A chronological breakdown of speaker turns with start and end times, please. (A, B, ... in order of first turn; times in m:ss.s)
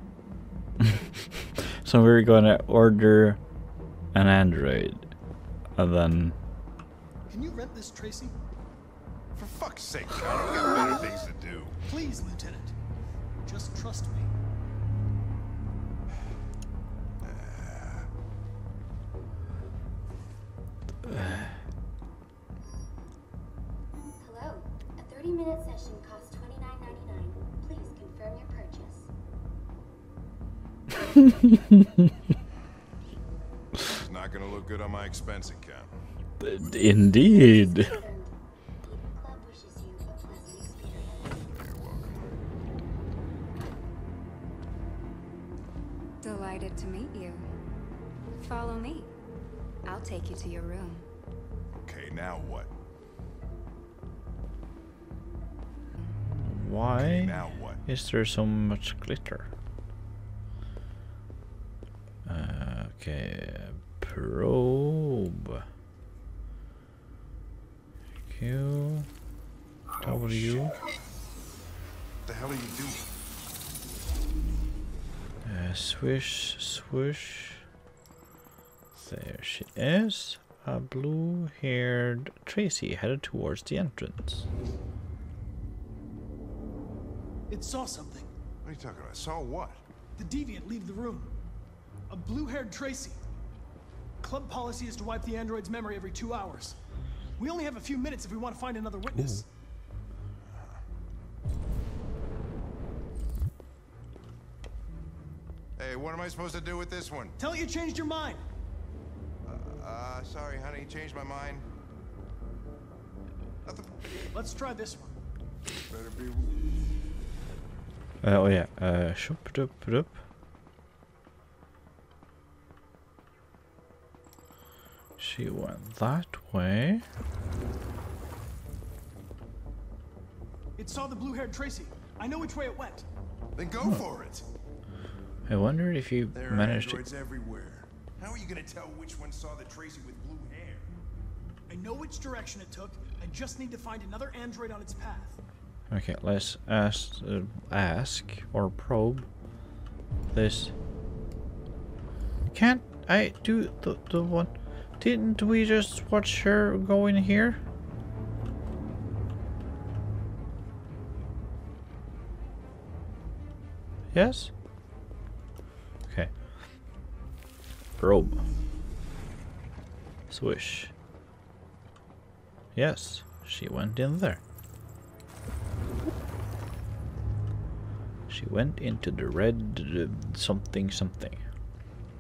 0:00.8-0:03.4 A
0:04.1-0:05.1 A
0:05.8-0:06.4 A
0:07.3-0:08.3 B
0:09.3-0:11.8 C
0:10.7-0:11.2 B
0:11.8-0:12.8 B
0:13.4-0:14.3 B
0:17.2-0:18.1 C
0:21.1-0:21.5 A
0:24.2-0:29.1 D
0:34.0-0:35.9 C
0:36.4-0:38.0 A
0:36.9-0:41.4 D
0:41.5-0:42.3 C
0:46.2-0:47.4 E
0:48.4-0:49.1 E
0:49.8-0:51.1 E
0:51.8-0:52.7 C
0:56.3-0:59.5 A
0:57.0-0:57.8 C
1:02.2-1:05.6 A
1:08.3-1:09.1 A
1:10.0-1:10.8 A
1:10.0-1:10.6 C
1:12.2-1:13.0 C
1:15.4-1:17.6 A
1:18.9-1:24.5 A
1:27.5-1:28.3 B
1:28.6-1:29.8 C
1:30.2-1:31.3 B
1:32.1-1:33.2 B
1:34.2-1:36.8 B
1:37.4-1:39.5 B
1:40.5-1:40.8 C
1:45.8-1:47.4 C
1:47.4-1:48.4 B
1:49.5-1:51.6 C
1:53.6-1:54.1 C
1:54.3-1:55.1 B
1:55.9-1:56.6 C
1:58.2-2:00.2 A
2:05.2-2:07.0 A
2:10.8-2:13.0 B
2:13.6-2:14.5 C
2:15.5-2:17.0 A
2:16.3-2:20.9 C
2:21.7-2:25.4 B
2:25.9-2:29.3 A
2:30.3-2:30.7 A
2:32.5-2:37.6 A
2:44.1-2:44.5 A
2:46.1-2:46.3 A
2:48.0-2:48.4 A
2:50.3-2:50.9 A
2:52.8-2:54.4 A
2:58.3-3:01.4 A